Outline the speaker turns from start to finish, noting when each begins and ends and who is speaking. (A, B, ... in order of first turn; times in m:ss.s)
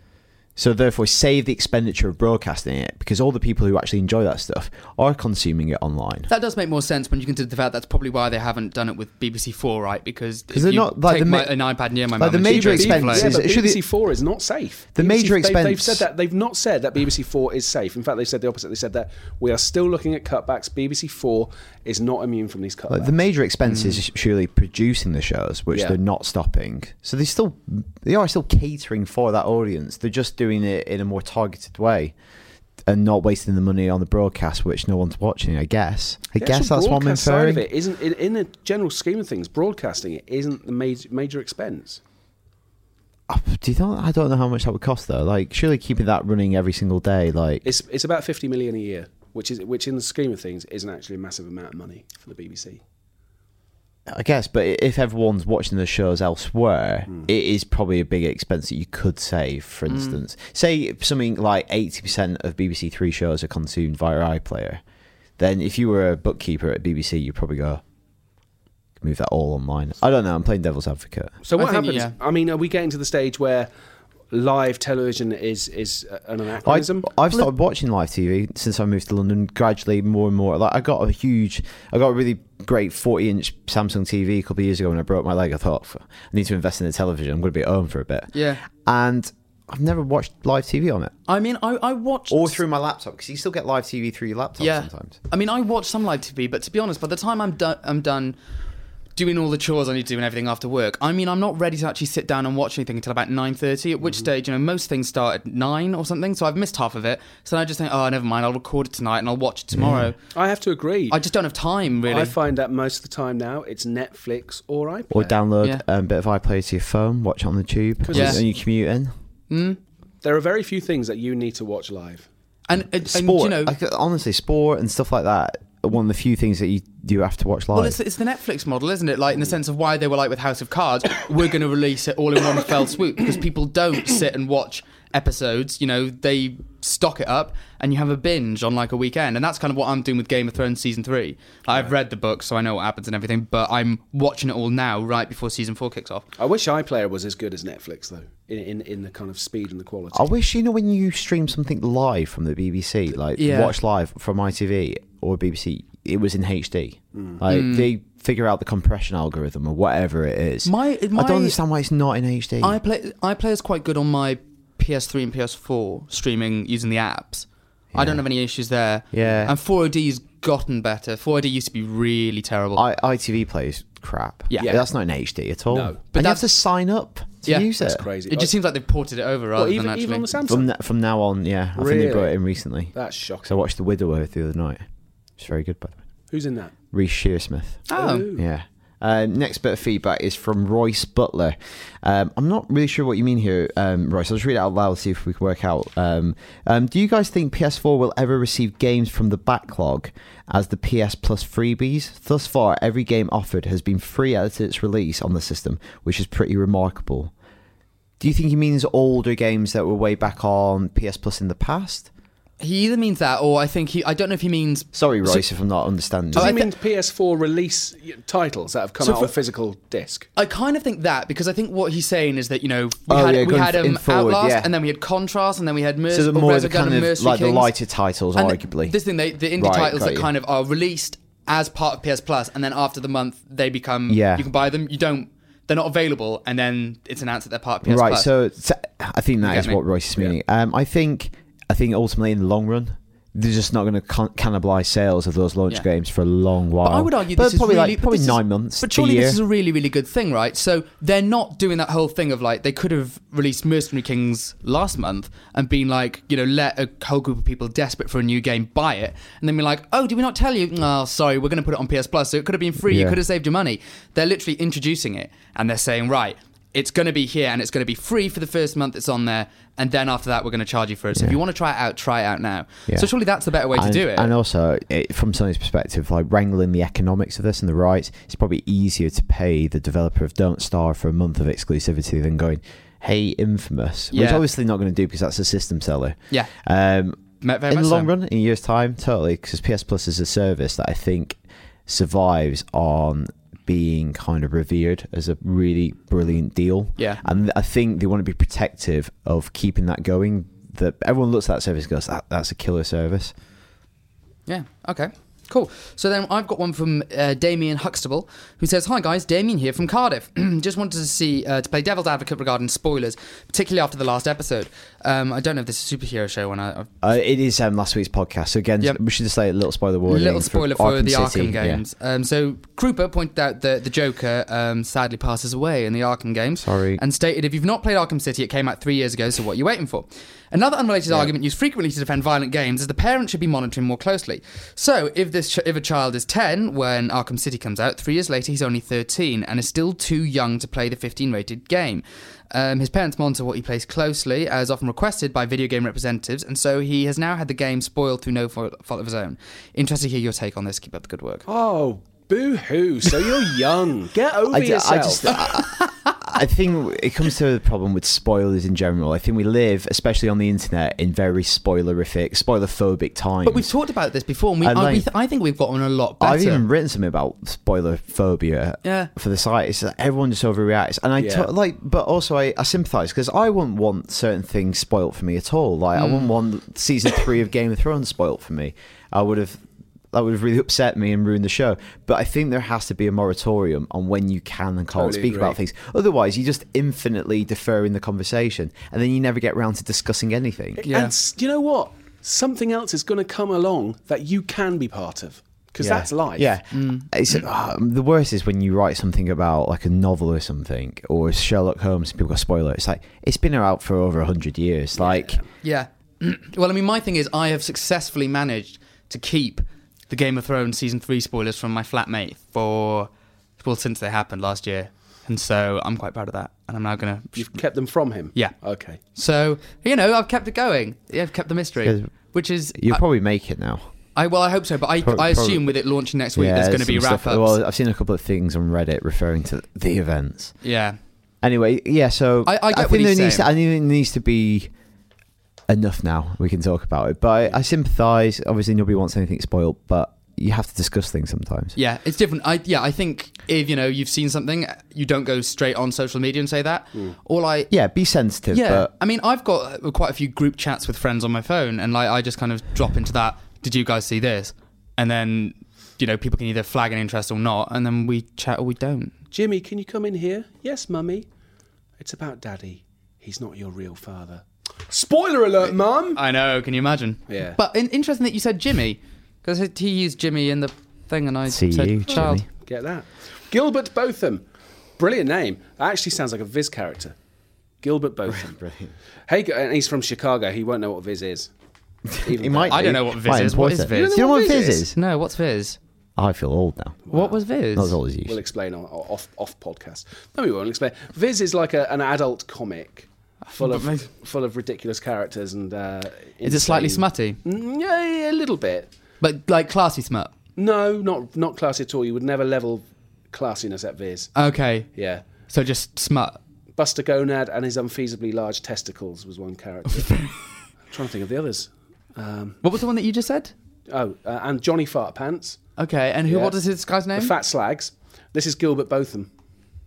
0:00.6-0:06.3 A
0:06.3-0:13.4 B
0:10.5-0:11.5 A
0:12.2-0:13.8 A
0:12.4-0:23.2 C
0:15.0-0:16.0 A
0:22.9-0:32.1 A
0:23.7-0:24.0 B
0:32.9-0:37.6 A
0:36.4-0:42.0 C
0:43.3-0:47.6 A
0:47.6-0:52.8 C
0:54.1-1:04.8 A
0:59.9-1:00.2 B
1:05.4-1:07.8 A
1:09.0-1:11.3 A
1:11.4-1:13.7 C
1:11.6-1:12.1 B
1:14.3-1:17.1 C
1:16.6-1:31.1 A
1:28.3-1:28.6 B
1:31.3-1:32.6 B
1:32.3-1:35.2 A
1:34.6-1:38.4 B
1:39.2-1:50.2 B
1:49.7-1:50.1 A
1:50.3-1:51.2 C
1:51.1-1:52.3 B
1:52.1-1:55.4 C
1:55.1-1:59.1 A
1:58.0-1:58.4 C
1:58.1-1:58.4 B
1:59.5-1:59.8 B
2:00.2-2:02.3 C
2:02.7-2:03.7 B
2:03.0-2:08.0 A
2:07.7-2:26.2 B
2:26.4-2:30.3 C
2:30.1-2:42.8 A
2:33.4-2:33.7 B
2:37.1-2:37.4 C
2:37.5-2:37.9 B
2:40.6-2:41.6 B
2:42.6-2:52.8 B
2:47.9-2:48.2 A
2:49.1-2:49.5 A
2:52.8-2:58.0 A
2:54.5-2:54.8 B
2:54.6-2:54.9 C
2:55.7-2:56.0 C
2:56.1-2:56.5 B
2:57.4-2:57.7 B
2:57.8-2:58.5 C
2:58.3-3:00.2 B
2:59.6-3:00.7 C
3:00.5-3:02.9 A
3:01.8-3:02.4 C
3:02.9-3:03.6 C
3:03.4-3:04.8 A
3:05.4-3:06.0 A
3:06.3-3:06.7 C
3:06.9-3:27.3 A
3:07.9-3:08.2 B
3:07.9-3:08.4 C
3:28.2-3:32.1 A
3:32.6-3:35.4 B
3:34.9-3:36.5 A
3:36.3-3:40.3 C
3:36.4-3:36.7 B
3:39.0-3:39.3 B
3:40.4-3:47.7 B
3:43.1-3:44.7 A
3:46.1-3:49.0 A
3:48.4-3:58.3 B
3:49.6-3:50.3 A
3:54.1-3:54.5 A
3:57.8-4:09.4 A
3:59.4-3:59.8 B
4:06.8-4:34.3 B
4:22.8-4:23.2 A
4:33.7-5:03.3 A
4:44.1-4:44.4 B
4:47.4-4:48.1 B
5:04.5-5:16.9 B
5:17.0-5:21.8 A
5:20.1-5:51.4 B
5:26.6-5:27.0 A
5:51.5-5:55.4 C
5:54.5-6:03.7 A
5:55.5-5:56.1 B
6:03.4-6:06.6 B
6:04.6-6:05.1 A
6:06.2-6:30.8 A
6:08.8-6:09.1 B
6:11.2-6:11.5 C
6:15.9-6:16.3 B
6:24.9-6:25.6 C
6:30.8-6:36.5 C
6:30.8-6:31.1 B
6:35.8-6:45.4 A
6:36.7-6:37.1 B
6:45.0-6:45.4 C
6:45.6-6:57.4 B
6:57.4-6:59.0 C
6:59.1-7:03.0 B
7:01.8-7:02.1 A
7:02.7-7:03.8 A
7:04.1-7:07.6 B
7:05.0-7:05.7 A
7:06.3-7:10.5 A
7:10.6-7:11.0 B
7:11.4-7:14.7 A
7:12.4-7:13.5 B
7:15.7-7:21.8 A
7:21.8-7:27.7 B
7:27.7-7:28.9 A
7:28.5-7:39.1 B
7:39.3-7:41.3 C
7:42.0-7:46.2 C
7:45.6-7:52.4 B
7:47.3-7:47.6 C
7:51.5-7:52.4 A
7:52.6-7:54.4 C
7:55.0-7:57.1 C
7:57.8-7:58.6 C
7:58.3-7:58.9 A
7:59.3-8:01.5 C
8:02.1-8:04.9 A
8:02.2-8:02.9 C
8:02.7-8:05.8 B
8:03.9-8:04.8 C
8:06.2-8:07.0 A
8:07.1-8:07.9 B
8:07.7-8:08.4 A
8:08.2-8:18.9 C
8:13.6-8:14.0 B
8:16.4-8:17.4 B
8:19.2-8:20.3 B
8:20.6-8:24.3 C
8:24.4-8:24.9 B
8:24.9-8:25.2 C
8:25.5-8:26.4 B
8:26.8-8:30.3 C
8:30.9-8:32.6 C
8:32.6-8:33.5 B
8:33.9-8:35.6 C
8:35.8-8:37.3 B
8:36.3-8:36.6 C
8:37.1-8:39.3 C